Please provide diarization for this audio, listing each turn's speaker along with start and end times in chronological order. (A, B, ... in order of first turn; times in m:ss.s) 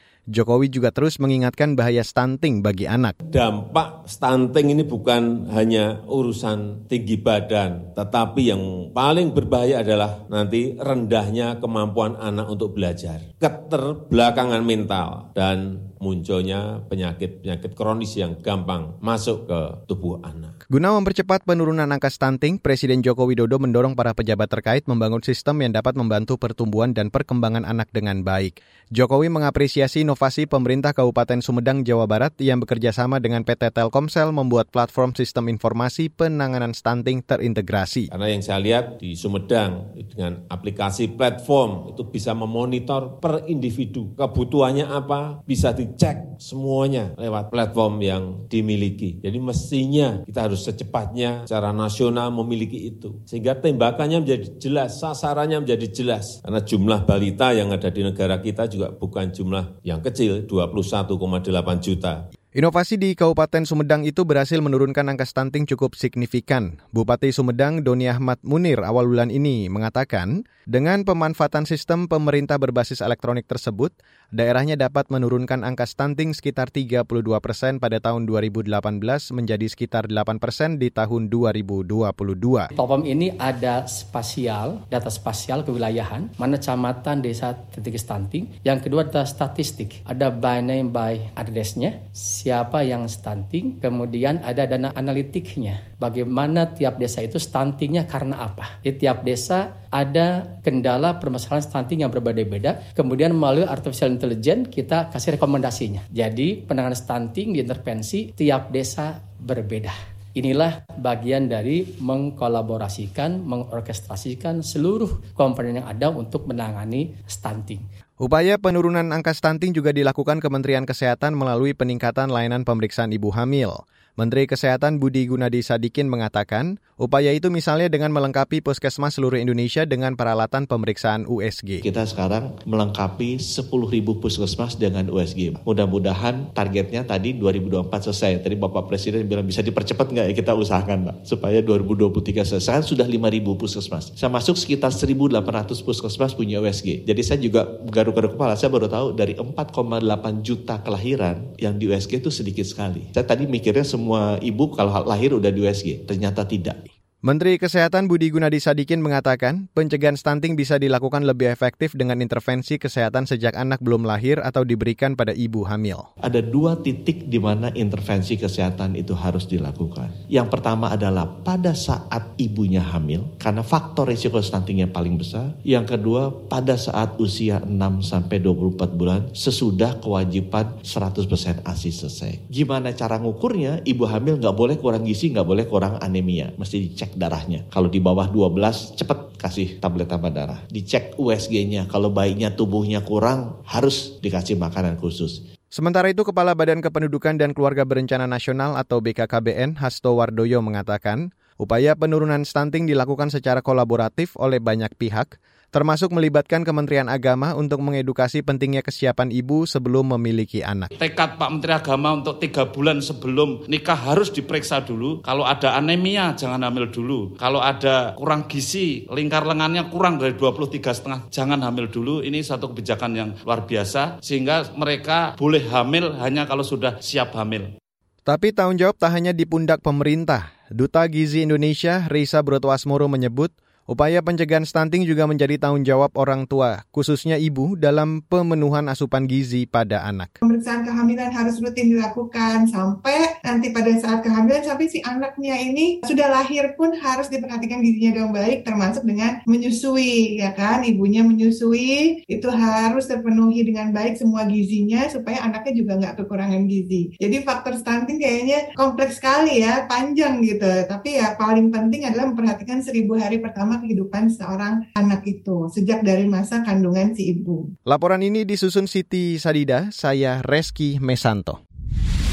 0:00.3-0:03.1 A
0:03.3-0:20.5 B
0:20.7-0:38.1 A
0:38.1-1:02.2 B
1:02.5-1:22.7 A
1:22.7-1:57.8 C
1:58.2-2:11.8 A
2:11.8-2:36.8 D
2:37.2-2:46.1 A
2:46.2-3:15.4 D
3:15.7-3:30.9 A
3:30.9-3:47.7 E
3:48.2-4:00.3 A
4:00.4-4:27.7 F
4:27.9-4:31.6 A